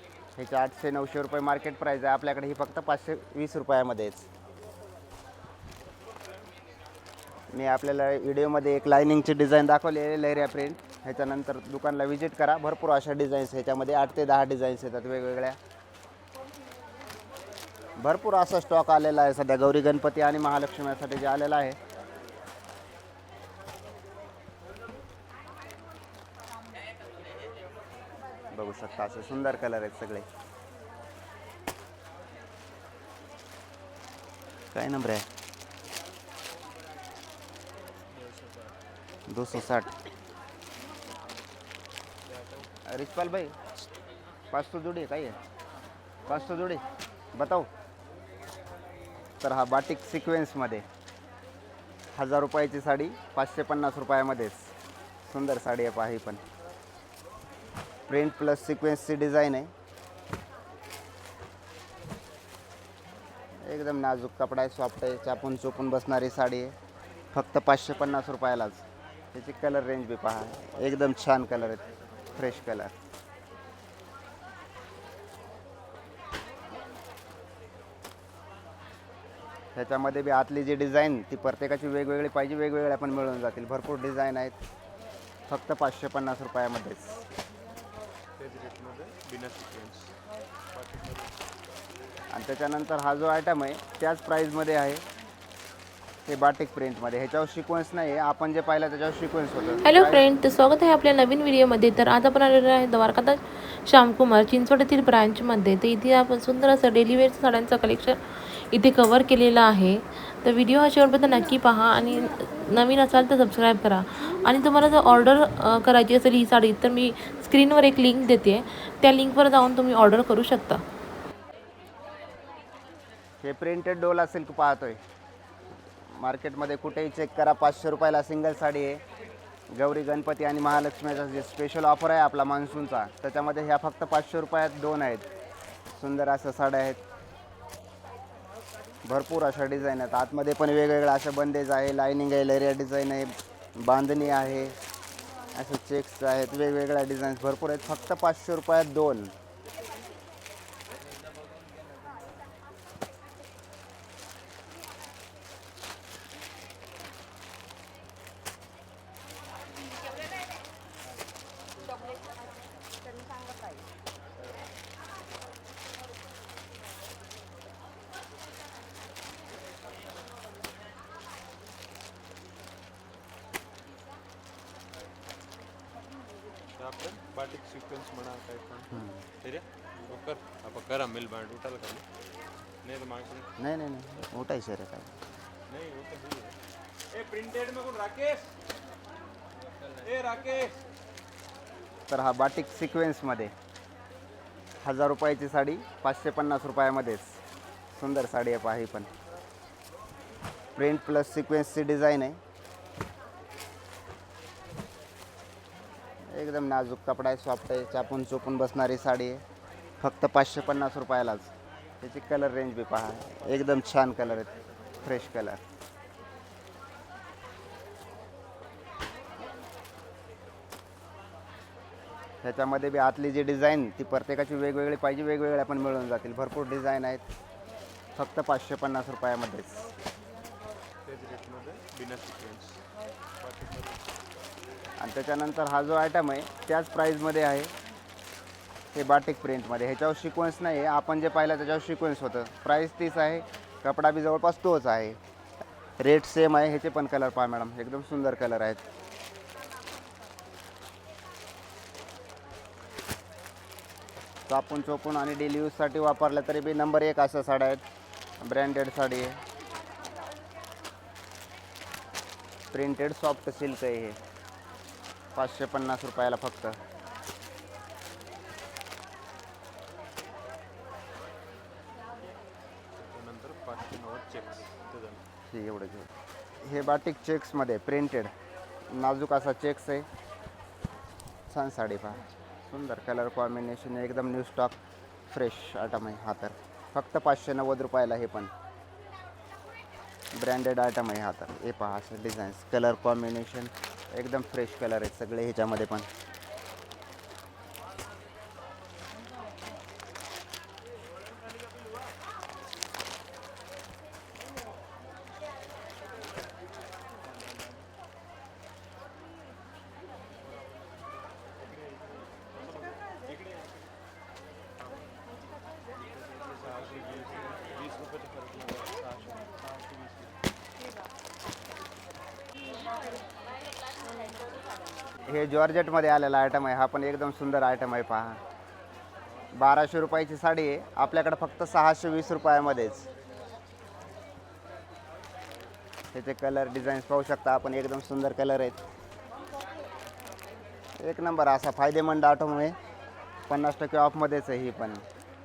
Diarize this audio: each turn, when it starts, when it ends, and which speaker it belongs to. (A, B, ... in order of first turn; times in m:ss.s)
0:00.4-0:04.3 A
0:07.5-0:15.6 A
0:18.0-0:21.8 A
0:28.5-0:30.3 A
0:34.7-0:35.2 A
0:38.1-0:38.8 B
0:39.3-0:39.9 A
0:42.3-0:42.7 B
0:42.9-0:43.5 A
0:44.5-0:45.4 A
0:46.3-0:46.8 A
0:47.3-0:47.7 A
0:49.4-0:50.8 A
0:52.2-0:54.7 A
0:55.3-0:56.4 A
0:58.1-0:59.7 A
1:03.6-1:06.7 A
1:07.3-1:12.9 A
1:19.7-1:24.6 A
1:25.5-1:27.2 A
1:28.4-1:30.1 B
1:30.7-1:31.3 B
1:32.3-1:35.0 A
1:36.2-1:40.2 A
1:39.8-2:00.8 C
2:03.4-2:05.0 A
2:06.2-2:09.0 A
2:09.7-2:15.2 A
2:15.9-2:17.0 A
2:19.0-2:24.7 A
2:25.5-2:29.3 A
2:56.8-3:02.0 B
2:58.9-2:59.2 A
3:02.8-3:03.5 B
3:03.6-3:05.1 A
3:05.7-3:06.6 B
3:07.1-3:08.5 B
3:10.0-3:10.8 B
3:12.1-3:13.5 A
3:14.8-3:17.4 A
3:17.9-3:19.1 A
3:20.8-3:22.4 A
3:26.3-3:29.4 A
3:30.0-3:35.6 A
3:42.4-3:47.2 A
3:48.2-3:49.9 A
3:51.0-3:52.8 B
3:53.4-3:54.0 B
3:55.0-3:57.7 A
3:58.9-4:05.2 A
4:06.0-4:08.8 A
4:14.5-4:17.8 A
4:18.4-4:19.4 A
4:22.7-4:24.2 A
4:25.3-4:26.8 A
4:33.0-4:35.2 B
4:35.5-4:36.1 A
4:36.6-4:38.3 A
4:38.9-4:40.1 A
4:41.5-4:44.8 A
4:45.3-4:48.5 A
4:50.3-4:56.1 A
5:16.6-5:20.3 B
5:25.3-5:28.4 A
5:29.5-5:33.1 A
5:36.1-5:38.8 A
5:41.0-5:42.7 A
5:43.5-5:45.0 A